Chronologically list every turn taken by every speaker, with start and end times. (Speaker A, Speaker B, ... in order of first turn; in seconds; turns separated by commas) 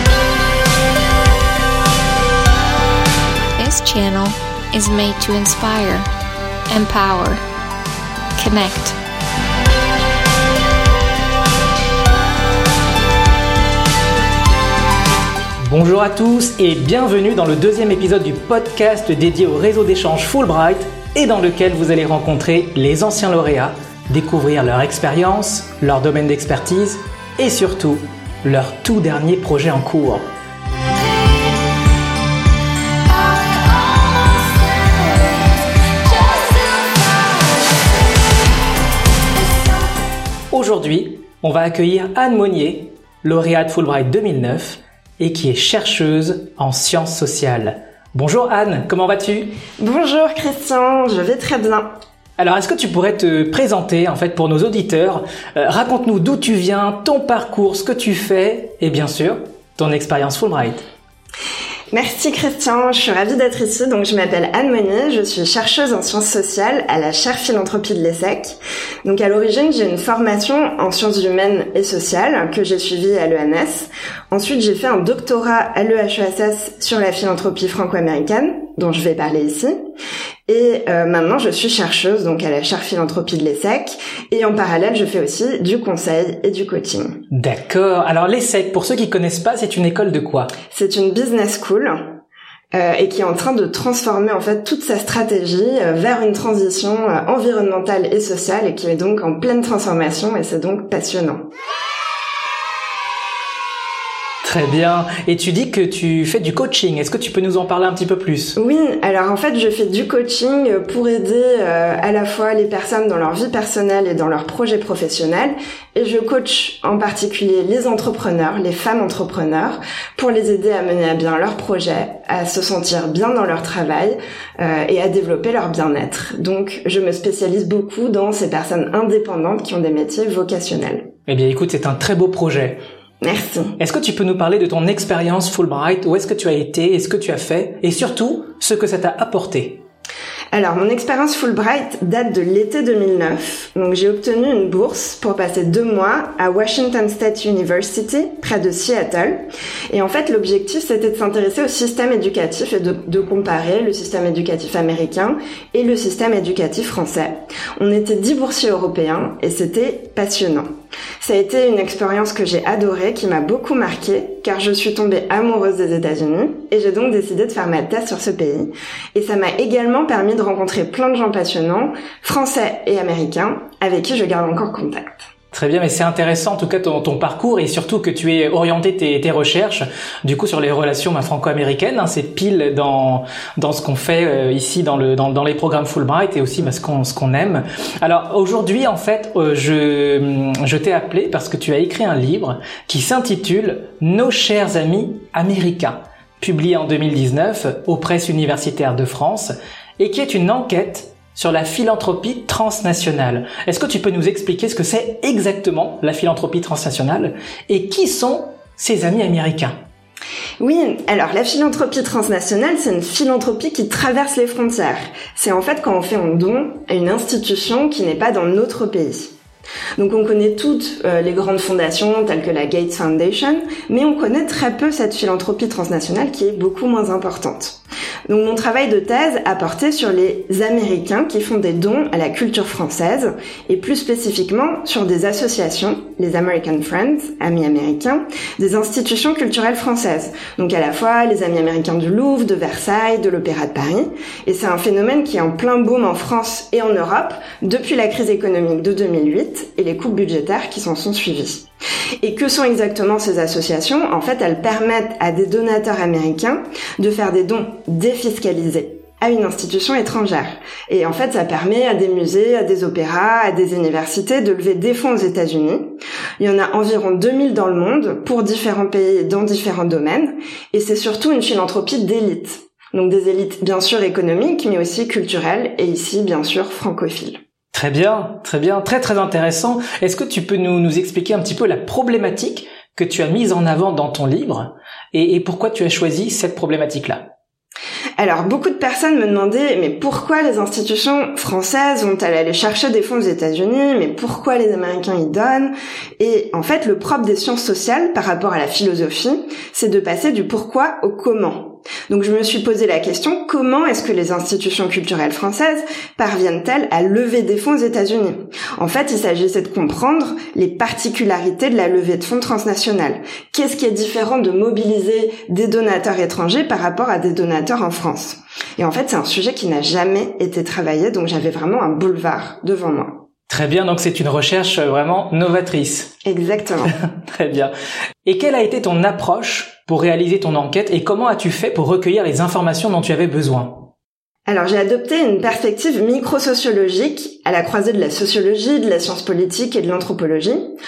Speaker A: 3.6-6.1, Speaker A: 6.7-7.4, Speaker A: 8.4-9.0, Speaker B: 15.7-30.3, Speaker B: 40.5-49.6, Speaker C: 49.8-51.9, Speaker B: 52.4-60.9, Speaker C: 61.9-79.7, Speaker C: 80.5-87.2, Speaker B: 87.3-90.5, Speaker C: 90.7-92.0, Speaker C: 92.7-101.4, Speaker B: 104.4-108.6, Speaker C: 108.6-131.1, Speaker B: 131.3-132.8, Speaker C: 133.2-133.8, Speaker B: 133.8-139.8, Speaker C: 140.5-160.7, Speaker C: 161.2-175.3, Speaker B: 175.5-209.8, Speaker C: 210.6-219.3, Speaker C: 220.0-251.7, Speaker C: 252.2-277.4, Speaker B: 277.7-287.3, Speaker C: 288.2-323.2, Speaker B: 323.5-326.1, Speaker C: 326.2-326.9, Speaker B: 326.9-327.7, Speaker B: 328.2-333.9, Speaker C: 334.5-340.6